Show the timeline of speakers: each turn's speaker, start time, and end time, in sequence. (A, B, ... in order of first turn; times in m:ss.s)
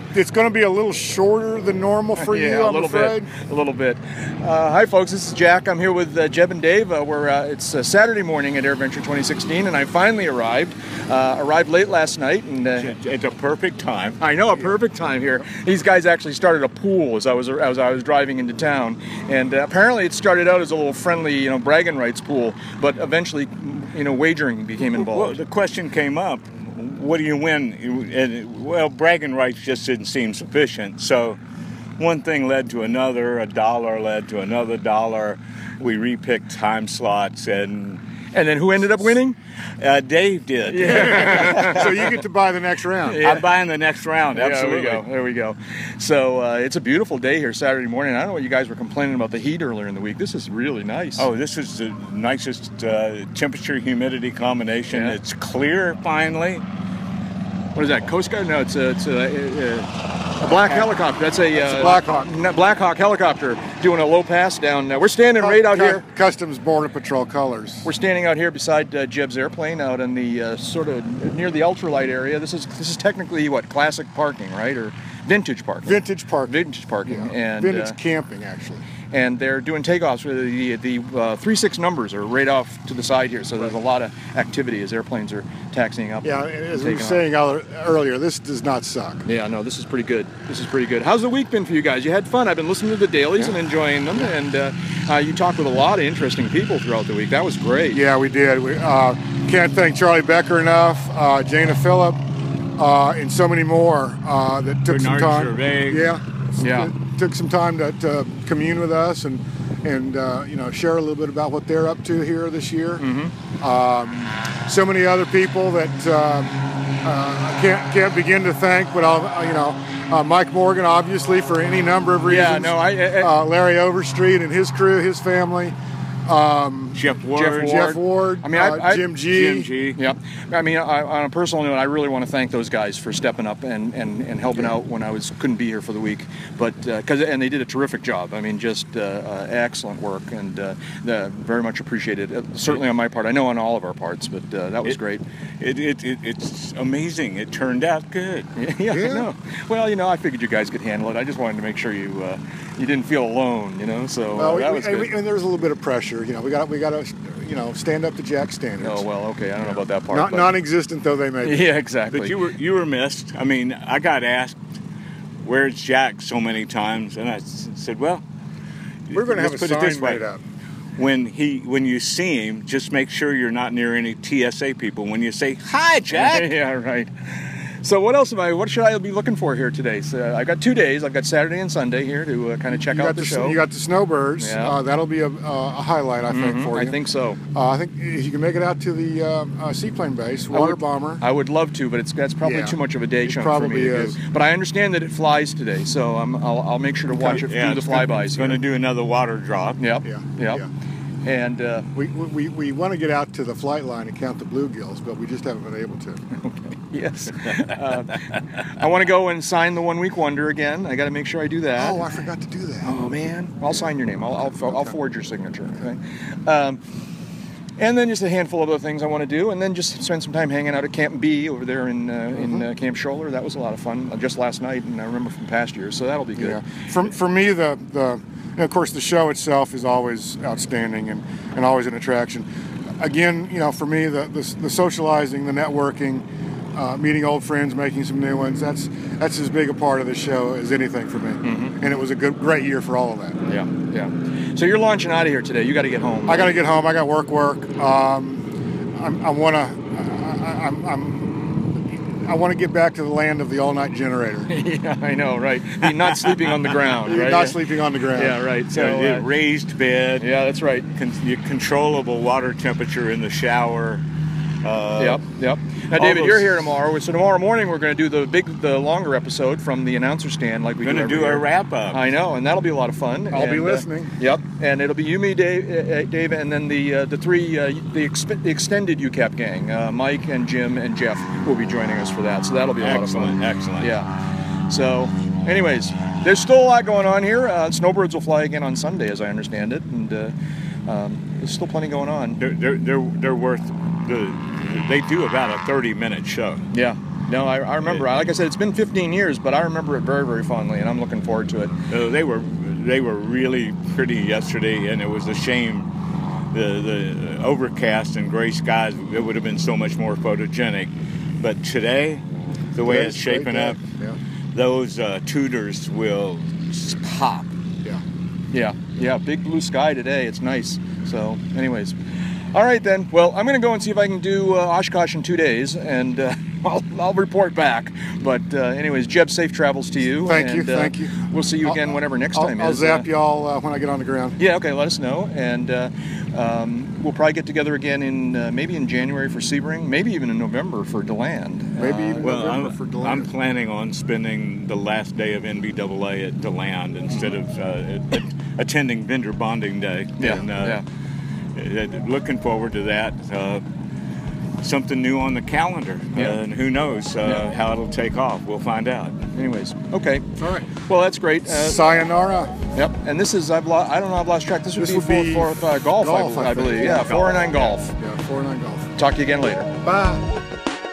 0:00.1-0:03.3 A
0:02.2-0:12.9 B
0:12.8-0:14.2 C
0:14.2-0:25.4 B
0:24.8-0:31.4 C
0:32.0-0:38.0 C
0:38.3-0:39.4 B
0:39.8-0:41.9 C
0:40.7-0:41.9 B
0:40.8-0:43.2 A
0:43.0-0:43.5 B
0:43.2-0:45.0 C
0:44.3-0:51.3 B
0:51.2-0:56.6 C
0:54.9-0:55.2 B
0:57.7-1:06.0 B
1:01.5-1:02.3 A
1:05.4-1:07.8 A
1:07.8-1:18.0 B
1:15.8-1:18.8 A
1:19.1-1:27.2 B
1:26.2-1:29.2 A
1:29.2-1:38.0 B
1:37.9-1:42.2 A
1:42.8-1:53.0 A
1:44.8-1:46.1 C
1:46.6-1:46.9 B
1:53.0-1:53.3 B
1:53.6-1:56.5 A
1:57.0-2:05.8 A
2:02.2-2:03.3 B
2:06.2-2:09.7 A
2:06.9-2:07.9 C
2:07.3-2:09.1 B
2:09.3-2:10.0 C
2:10.0-2:25.2 B
2:25.6-2:28.5 C
2:28.5-2:35.1 B
2:28.9-2:29.3 A
2:34.4-2:39.0 A
2:38.8-2:40.6 B
2:40.1-2:41.7 A
2:41.4-2:42.4 B
2:42.1-2:44.6 C
2:45.4-2:48.2 C
2:49.1-2:50.2 C
2:49.1-2:50.4 A
2:51.0-2:56.5 C
2:56.1-3:03.6 B
3:02.7-3:07.0 A
3:04.4-3:04.8 B
3:06.3-3:07.4 B
3:07.5-3:11.2 A
3:10.5-3:18.6 B
3:12.4-3:14.2 A
3:17.1-3:17.4 A
3:17.2-3:19.8 C
3:19.8-3:20.6 B
3:20.0-3:20.6 A
3:21.2-3:21.8 B
3:21.9-3:26.2 A
3:26.4-3:32.1 B
3:31.8-3:33.0 A
3:32.8-3:36.8 B
3:34.4-3:34.9 A
3:37.8-3:46.6 B
3:42.4-3:42.7 A
3:46.4-3:52.5 A
3:53.0-4:03.4 A
4:01.4-4:01.8 B
4:03.5-4:06.6 B
4:06.3-4:08.4 A
4:09.0-4:14.5 A
4:14.5-4:19.3 B
4:17.1-4:18.4 A
4:18.7-4:20.3 C
4:20.2-4:20.9 B
4:20.9-4:24.0 C
4:24.6-4:25.2 C
4:25.0-4:44.1 B
4:25.9-4:26.6 C
4:30.8-4:32.0 C
4:33.3-4:34.1 A
4:42.8-4:43.9 C
4:44.7-4:50.3 B
4:50.9-4:52.4 B
4:52.4-4:56.6 C
4:56.7-5:01.7 B
5:01.9-5:05.9 C
5:06.5-5:13.8 C
5:12.8-5:14.2 A
5:14.5-5:17.5 C
5:18.5-5:21.9 B
5:22.5-5:33.1 B
5:30.2-5:31.8 A
5:32.3-5:34.4 A
5:34.4-5:42.4 B
5:41.8-5:43.3 A
5:42.2-5:50.8 C
5:50.2-5:50.8 B
5:51.6-5:53.6 C
5:54.6-5:59.2 C
5:57.2-5:57.5 B
5:59.3-6:00.2 B
6:00.4-6:00.7 A
6:00.8-6:01.8 B
6:01.4-6:02.5 A
6:02.7-6:07.9 B
6:04.8-6:08.9 A
6:07.0-6:07.7 C
6:09.0-6:09.7 B
6:09.8-6:10.2 A